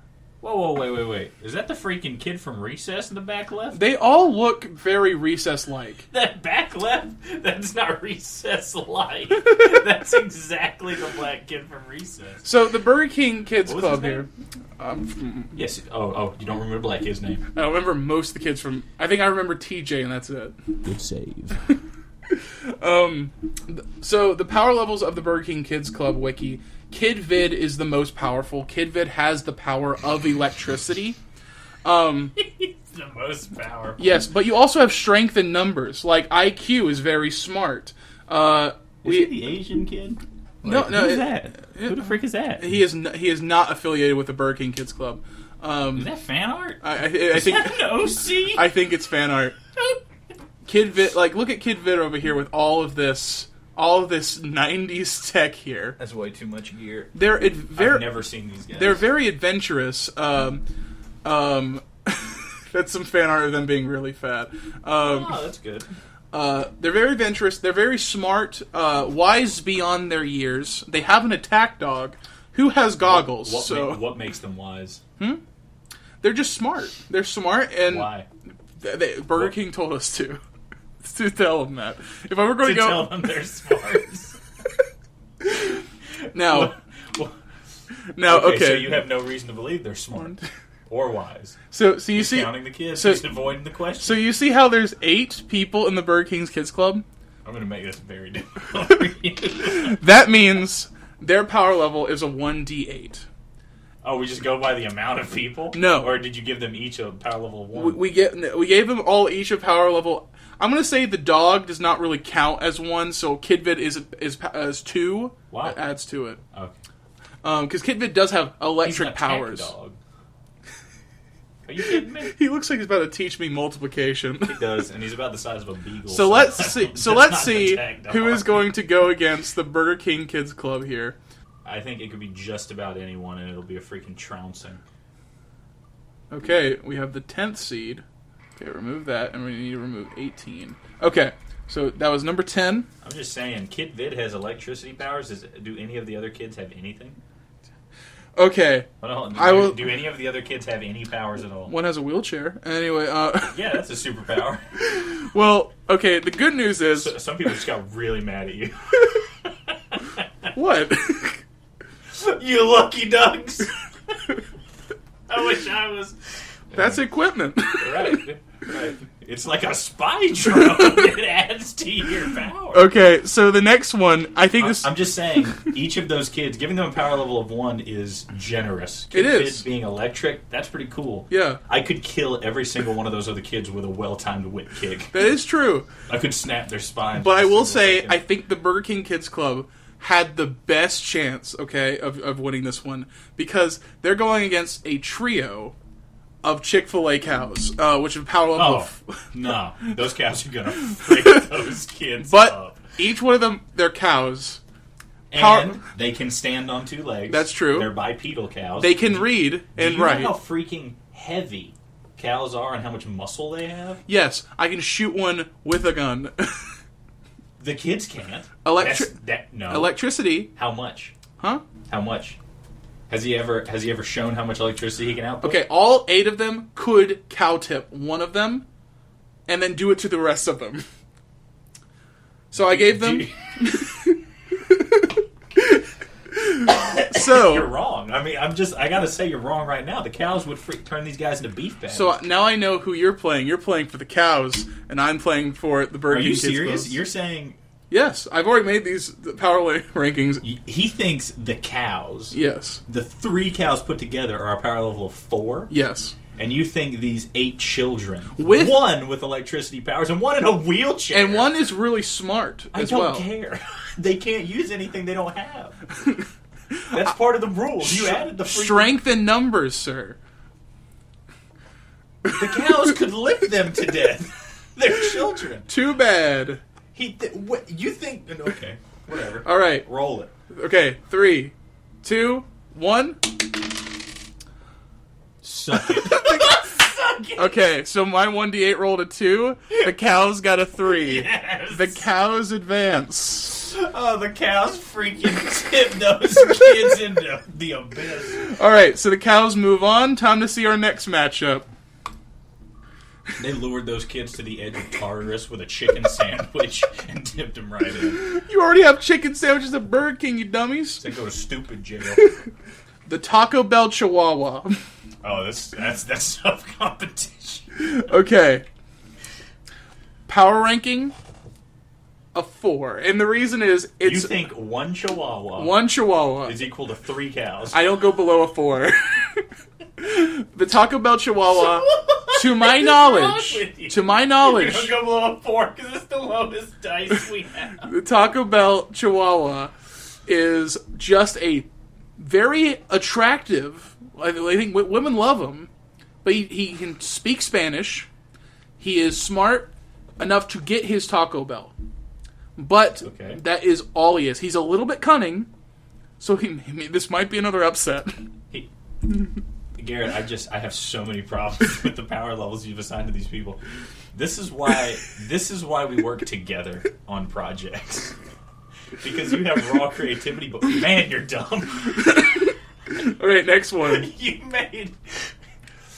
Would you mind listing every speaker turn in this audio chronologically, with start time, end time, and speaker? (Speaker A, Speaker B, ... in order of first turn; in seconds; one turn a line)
Speaker A: 0.4-3.8
Speaker B: 3.7-6.1
Speaker A: 6.1-12.5
Speaker B: 12.4-14.3
Speaker A: 13.6-14.3
Speaker B: 14.8-15.5
Speaker A: 15.6-17.4
Speaker B: 17.5-20.6
Speaker A: 20.8-21.7
Speaker B: 22.3-31.2
Speaker B: 31.9-32.4
Speaker A: 32.4-34.2
Speaker B: 34.0-39.3
Speaker A: 39.0-42.8
Speaker B: 40.6-46.1
Speaker A: 45.9-48.7
Speaker B: 46.8-49.6
Speaker B: 50.6-56.0
Speaker A: 56.0-57.2
Speaker B: 57.1-58.1
Speaker A: 57.8-59.1
Speaker B: 58.7-60.6
Speaker B: 61.2-65.4
Speaker A: 65.0-65.9
Speaker B: 66.3-74.0
Speaker A: 73.0-75.0
Speaker B: 76.2-78.1
Speaker A: 77.9-78.3
Speaker B: 78.8-80.4
Speaker B: 81.0-83.3
Speaker A: 82.6-84.4
Speaker B: 85.4-85.8
Speaker B: 86.3-86.7
Speaker A: 86.3-87.4
Speaker B: 88.2-89.1
Speaker A: 88.2-91.6
Speaker B: 90.2-90.4
Speaker B: 91.7-93.3
Speaker A: 92.1-94.2
Speaker B: 94.0-97.0
Speaker A: 97.5-100.0
Speaker B: 99.6-103.3
Speaker A: 104.0-108.0
Speaker B: 105.7-106.2
Speaker B: 107.7-116.4
Speaker A: 115.5-115.8
Speaker B: 117.4-119.7
Speaker A: 118.8-120.0
Speaker A: 121.7-122.4
Speaker B: 121.8-124.6
Speaker A: 124.5-128.7
Speaker B: 126.1-131.2
Speaker A: 131.6-134.8
Speaker B: 136.3-138.0
Speaker B: 138.6-142.9
Speaker A: 143.0-147.2
Speaker B: 148.4-149.9
Speaker A: 149.0-151.7
Speaker B: 151.7-153.7
Speaker A: 153.5-154.7
Speaker B: 154.8-157.2
Speaker A: 156.9-160.5
Speaker B: 160.5-161.4
Speaker A: 162.1-164.2
Speaker A: 165.3-167.0
Speaker B: 166.7-168.2
Speaker A: 167.8-172.9
Speaker B: 170.5-171.0
Speaker B: 172.7-175.1
Speaker A: 174.6-185.3
Speaker B: 179.1-179.7
Speaker B: 181.3-181.6
Speaker B: 185.1-185.9
Speaker A: 186.1-188.2
Speaker B: 187.2-195.8
Speaker B: 196.4-199.3
Speaker A: 198.6-202.9
Speaker B: 201.0-201.4
Speaker B: 202.2-204.6
Speaker A: 205.3-214.0
Speaker B: 205.3-205.8
Speaker B: 207.3-208.0
Speaker B: 208.8-210.4
Speaker B: 214.1-216.7
Speaker A: 217.6-221.2
Speaker B: 218.6-220.5
Speaker A: 221.9-222.4
Speaker A: 223.1-225.6
Speaker B: 225.4-228.7
Speaker B: 229.5-230.8
Speaker B: 232.5-234.2
Speaker A: 232.5-233.8
Speaker B: 234.7-235.8
Speaker B: 236.3-237.7
Speaker A: 236.6-242.2
Speaker B: 241.9-247.0
Speaker A: 246.1-247.6
Speaker B: 247.9-250.4
Speaker A: 250.4-252.4
Speaker B: 252.3-252.8
Speaker A: 252.9-255.7
Speaker B: 255.7-256.1
Speaker A: 256.3-261.5
Speaker B: 258.4-258.8
Speaker B: 261.1-263.3
Speaker A: 262.7-265.8
Speaker B: 266.7-267.0
Speaker A: 266.9-268.9
Speaker B: 267.8-270.2
Speaker A: 272.2-275.7
Speaker B: 275.7-276.6
Speaker A: 276.9-280.3
Speaker B: 279.4-279.9
Speaker B: 280.5-283.4
Speaker A: 285.4-287.7
Speaker B: 285.8-286.6
Speaker B: 287.4-293.6
Speaker A: 290.8-292.0
Speaker A: 293.5-298.4
Speaker B: 298.4-301.7
Speaker A: 303.4-308.2
Speaker B: 308.1-311.0
Speaker A: 311.0-312.2
Speaker B: 312.1-312.4
Speaker B: 313.1-314.8
Speaker A: 315.2-317.6
Speaker B: 317.8-318.6
Speaker B: 320.3-321.1
Speaker B: 322.3-324.5
Speaker A: 324.0-325.8
Speaker B: 325.6-326.6
Speaker A: 326.4-327.8
Speaker B: 327.7-329.5
Speaker B: 330.0-334.9
Speaker A: 331.5-337.9
Speaker B: 337.8-339.7
Speaker B: 340.3-345.7
Speaker B: 346.2-348.1
Speaker B: 348.8-351.7
Speaker B: 352.6-355.5
Speaker A: 353.0-353.4
Speaker B: 356.2-358.2
Speaker A: 359.8-363.6
Speaker A: 364.1-368.2
Speaker A: 369.0-372.3
Speaker B: 372.1-374.1
Speaker A: 373.8-375.3